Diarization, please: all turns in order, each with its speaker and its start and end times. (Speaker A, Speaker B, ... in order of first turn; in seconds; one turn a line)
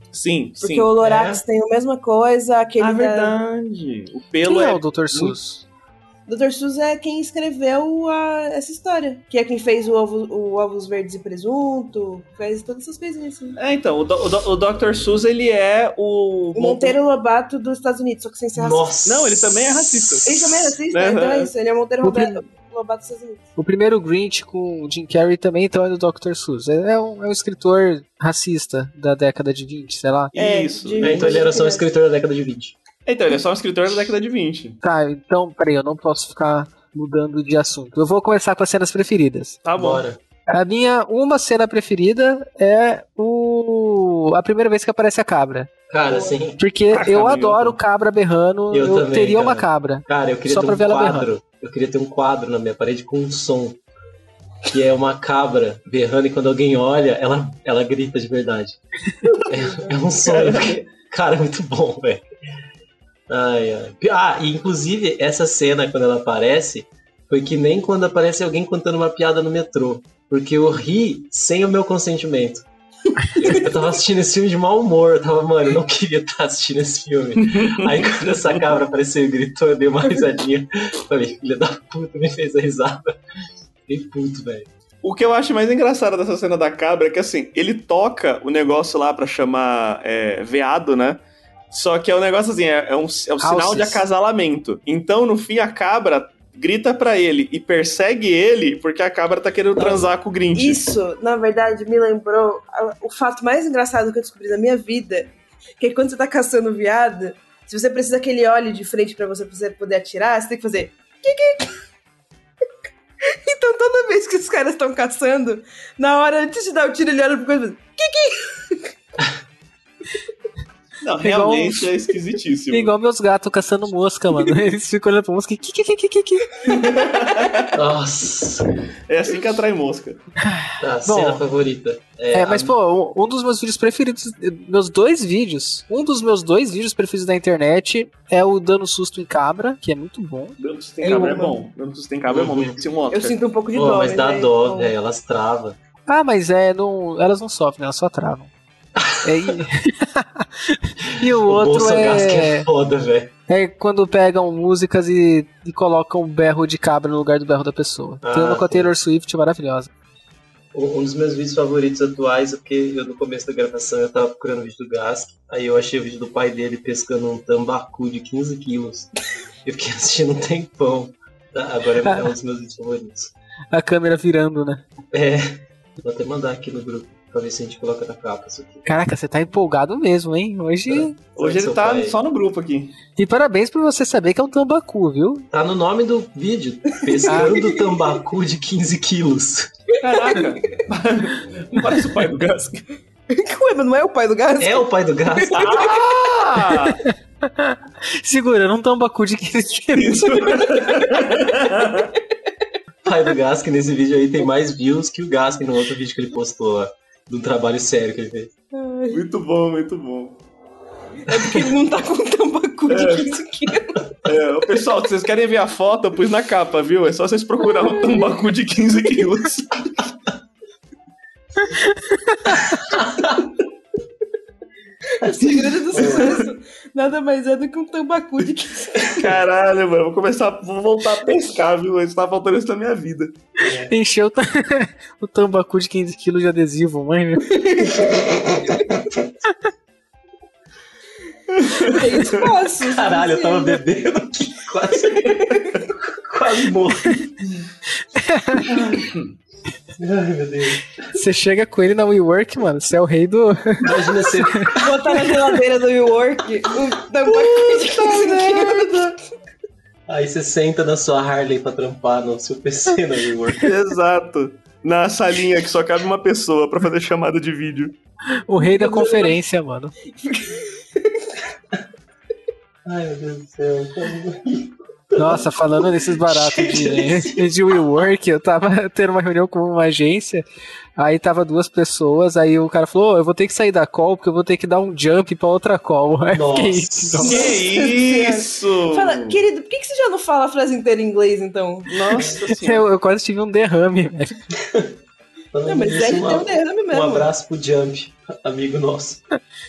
Speaker A: 0.1-0.9
Speaker B: 0.6-3.4
Speaker C: 1.0-1.4
Speaker A: 2.8-5.4
Speaker D: 4.4-5.6
Speaker B: 6.3-13.6
Speaker A: 13.6-17.0
Speaker B: 16.6-18.9
Speaker C: 18.5-20.2
Speaker A: 19.1-21.5
Speaker B: 20.2-23.5
Speaker D: 22.0-22.4
Speaker D: 23.6-30.4
Speaker A: 30.3-31.5
Speaker B: 30.4-31.9
Speaker C: 31.0-32.8
Speaker A: 33.1-34.8
Speaker D: 34.8-39.6
Speaker A: 39.6-40.0
Speaker C: 39.8-40.2
Speaker D: 40.5-45.7
Speaker C: 45.9-46.6
Speaker B: 46.1-46.4
Speaker D: 46.6-51.3
Speaker A: 46.9-47.8
Speaker C: 48.7-53.8
Speaker C: 54.7-58.8
Speaker C: 59.5-62.2
Speaker A: 60.2-60.8
Speaker C: 63.3-72.6
Speaker C: 73.3-83.2
Speaker A: 77.4-78.6
Speaker C: 83.9-84.7
Speaker A: 85.0-100.8
Speaker D: 93.4-94.0
Speaker C: 99.8-100.1
Speaker B: 100.5-111.8
Speaker B: 113.3-118.9
Speaker A: 121.0-122.9
Speaker D: 121.2-121.9
Speaker D: 122.7-126.7
Speaker A: 126.7-127.7
Speaker B: 127.0-127.6
Speaker C: 127.7-128.7
Speaker A: 129.1-130.2
Speaker D: 130.4-131.4
Speaker C: 130.8-132.7
Speaker D: 132.3-140.6
Speaker A: 140.6-143.4
Speaker B: 141.0-141.6
Speaker C: 142.3-142.8
Speaker B: 143.1-144.9
Speaker C: 143.7-145.8
Speaker D: 146.1-148.5
Speaker C: 149.0-149.6
Speaker D: 149.2-152.7
Speaker C: 151.1-153.3
Speaker D: 153.5-159.9
Speaker C: 158.2-158.9
Speaker C: 160.7-169.1
Speaker C: 169.6-173.3
Speaker D: 172.0-172.3
Speaker D: 173.7-174.8
Speaker C: 175.1-178.9
Speaker D: 178.8-181.1
Speaker C: 180.9-182.2
Speaker A: 181.4-183.0
Speaker D: 183.2-185.5
Speaker C: 185.5-189.7
Speaker B: 187.0-187.9
Speaker D: 187.3-187.6
Speaker A: 190.0-192.8
Speaker B: 190.1-190.6
Speaker B: 193.3-196.1
Speaker C: 194.6-195.9
Speaker A: 195.6-197.0
Speaker D: 196.7-200.8
Speaker A: 199.9-202.1
Speaker B: 200.6-201.3
Speaker C: 203.1-208.5
Speaker B: 208.7-209.2
Speaker A: 209.1-210.4
Speaker B: 211.3-214.1
Speaker A: 212.9-213.3
Speaker A: 214.2-220.1
Speaker B: 217.7-218.3
Speaker D: 221.7-222.8
Speaker C: 222.8-223.5
Speaker B: 225.2-229.3
Speaker C: 225.2-226.3
Speaker A: 225.9-226.3
Speaker A: 229.1-233.3
Speaker C: 233.6-233.9
Speaker D: 233.8-237.6
Speaker B: 237.6-238.1
Speaker C: 238.7-238.9
Speaker A: 241.5-242.4
Speaker B: 241.8-243.8
Speaker C: 242.8-247.4
Speaker B: 245.1-245.8
Speaker D: 248.1-248.7
Speaker C: 248.7-249.1
Speaker C: 250.0-251.1
Speaker D: 251.1-254.8
Speaker C: 253.8-255.2
Speaker B: 254.8-259.2
Speaker A: 257.3-259.1
Speaker C: 260.1-263.7
Speaker A: 263.6-267.9
Speaker D: 268.4-269.9
Speaker B: 268.6-269.4
Speaker B: 270.1-271.3
Speaker C: 272.9-278.0
Speaker D: 275.2-280.4
Speaker D: 281.0-287.4
Speaker C: 286.3-287.5
Speaker A: 287.2-289.4
Speaker B: 287.2-292.2
Speaker A: 291.9-292.9
Speaker D: 292.5-294.3
Speaker C: 294.5-294.9
Speaker C: 295.5-299.2
Speaker B: 295.7-297.3